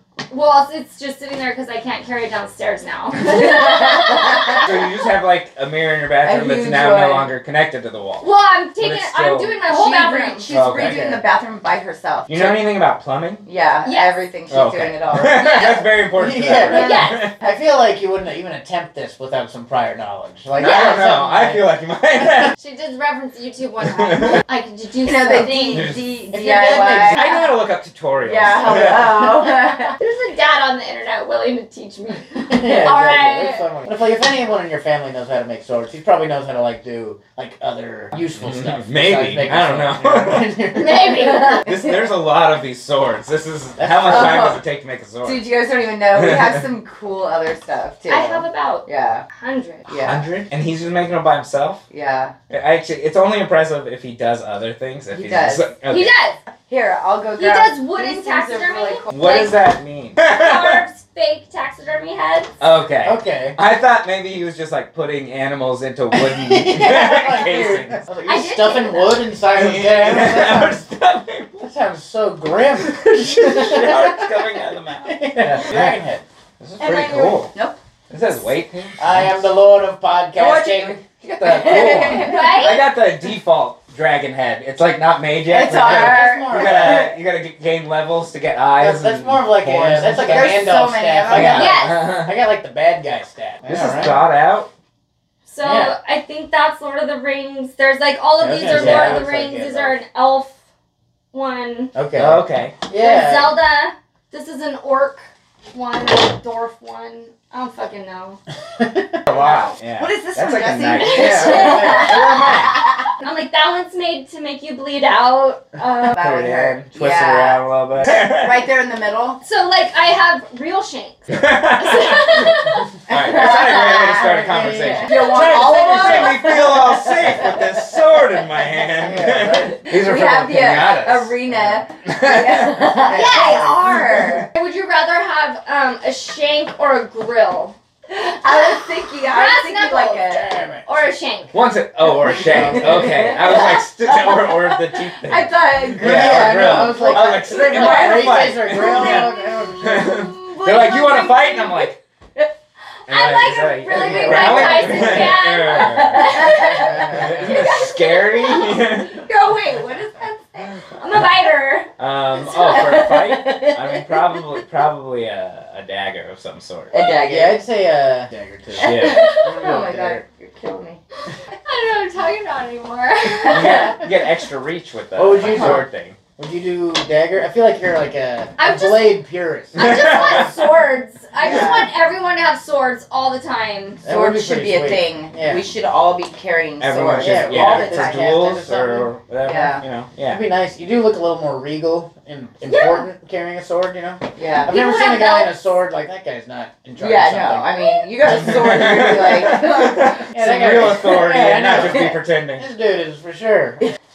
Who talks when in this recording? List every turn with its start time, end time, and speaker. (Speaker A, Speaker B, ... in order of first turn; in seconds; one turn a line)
Speaker A: 0.3-4.7
Speaker B: 3.3-4.6
Speaker C: 4.5-8.3
Speaker B: 6.2-7.3
Speaker A: 8.2-10.5
Speaker C: 8.8-9.6
Speaker B: 9.7-12.7
Speaker C: 10.5-11.0
Speaker D: 10.7-11.2
Speaker C: 12.3-13.4
Speaker B: 13.4-15.7
Speaker A: 13.8-14.1
Speaker C: 14.5-17.3
Speaker A: 15.4-15.9
Speaker D: 16.2-21.6
Speaker A: 16.6-17.3
Speaker C: 20.6-22.6
Speaker A: 20.6-20.9
Speaker A: 22.6-25.9
Speaker C: 23.8-24.4
Speaker B: 25.0-27.4
Speaker C: 25.7-26.1
Speaker D: 26.3-27.2
Speaker C: 27.1-29.3
Speaker B: 28.2-30.0
Speaker A: 29.9-33.6
Speaker D: 32.5-41.5
Speaker C: 38.4-40.6
Speaker A: 40.8-41.6
Speaker C: 41.6-45.4
Speaker D: 43.8-44.6
Speaker B: 44.0-44.6
Speaker B: 45.2-49.2
Speaker C: 46.2-46.5
Speaker A: 48.1-49.9
Speaker B: 49.9-50.2
Speaker C: 50.0-51.8
Speaker B: 51.9-52.3
Speaker C: 52.5-56.1
Speaker B: 55.1-55.7
Speaker A: 55.9-56.4
Speaker B: 56.7-59.3
Speaker A: 57.4-59.5
Speaker C: 59.1-60.8
Speaker A: 60.2-62.5
Speaker C: 62.6-68.0
Speaker D: 63.0-63.6
Speaker D: 66.1-70.8
Speaker A: 68.3-69.3
Speaker C: 69.5-71.7
Speaker D: 71.6-74.4
Speaker C: 72.8-76.0
Speaker D: 75.0-76.2
Speaker C: 76.6-77.5
Speaker B: 76.8-77.8
Speaker C: 78.1-79.2
Speaker D: 79.0-82.3
Speaker B: 80.3-82.7
Speaker C: 81.4-90.6
Speaker A: 82.2-82.8
Speaker B: 85.5-87.1
Speaker D: 85.8-87.1
Speaker D: 88.8-94.2
Speaker B: 90.1-91.8
Speaker C: 91.3-92.4
Speaker A: 91.5-92.1
Speaker C: 93.7-94.7
Speaker A: 95.5-100.5
Speaker D: 95.6-95.9
Speaker D: 98.4-100.0
Speaker C: 98.7-99.2
Speaker A: 101.3-101.9
Speaker D: 101.9-103.6
Speaker C: 102.2-102.8
Speaker A: 102.9-108.4
Speaker D: 108.8-109.2
Speaker B: 109.3-112.5
Speaker C: 109.3-112.8
Speaker A: 111.0-112.3
Speaker D: 111.1-112.5
Speaker A: 113.1-116.2
Speaker B: 116.1-119.4
Speaker C: 116.2-118.7
Speaker A: 119.4-123.0
Speaker C: 121.3-122.6
Speaker C: 123.1-131.4
Speaker B: 123.1-124.4
Speaker D: 124.2-125.1
Speaker B: 124.9-127.8
Speaker A: 125.1-126.7
Speaker D: 128.9-129.8
Speaker B: 129.6-134.5
Speaker D: 131.5-131.8
Speaker C: 132.1-133.0
Speaker D: 133.0-134.4
Speaker A: 133.1-133.8
Speaker A: 134.5-137.8
Speaker B: 138.1-140.5
Speaker A: 138.5-141.5
Speaker D: 140.3-140.9
Speaker C: 141.5-152.0
Speaker D: 142.2-143.4
Speaker B: 142.5-148.9
Speaker D: 146.0-150.1
Speaker A: 147.8-151.9
Speaker B: 150.4-151.3
Speaker C: 153.1-159.2
Speaker A: 153.1-160.2
Speaker D: 153.9-155.4
Speaker B: 155.7-157.0
Speaker D: 156.7-157.5
Speaker B: 159.3-160.7
Speaker A: 160.9-161.9
Speaker C: 162.0-166.9
Speaker B: 162.4-164.4
Speaker B: 166.9-167.6
Speaker D: 167.3-170.2
Speaker B: 168.8-171.0
Speaker C: 168.8-169.3
Speaker A: 169.1-169.5
Speaker A: 171.7-174.0
Speaker C: 173.4-176.2
Speaker D: 175.2-175.9
Speaker B: 175.4-175.8
Speaker D: 176.4-180.8
Speaker A: 178.6-179.2
Speaker A: 179.8-184.0
Speaker C: 179.8-180.6
Speaker B: 181.4-181.9
Speaker D: 184.0-185.6
Speaker B: 184.1-188.3
Speaker C: 186.8-190.4
Speaker D: 187.2-189.1
Speaker B: 189.4-189.8
Speaker D: 190.3-197.7
Speaker A: 192.7-193.1
Speaker B: 194.4-194.8
Speaker A: 194.7-195.6
Speaker B: 197.0-200.2
Speaker C: 198.2-202.7
Speaker D: 200.3-203.8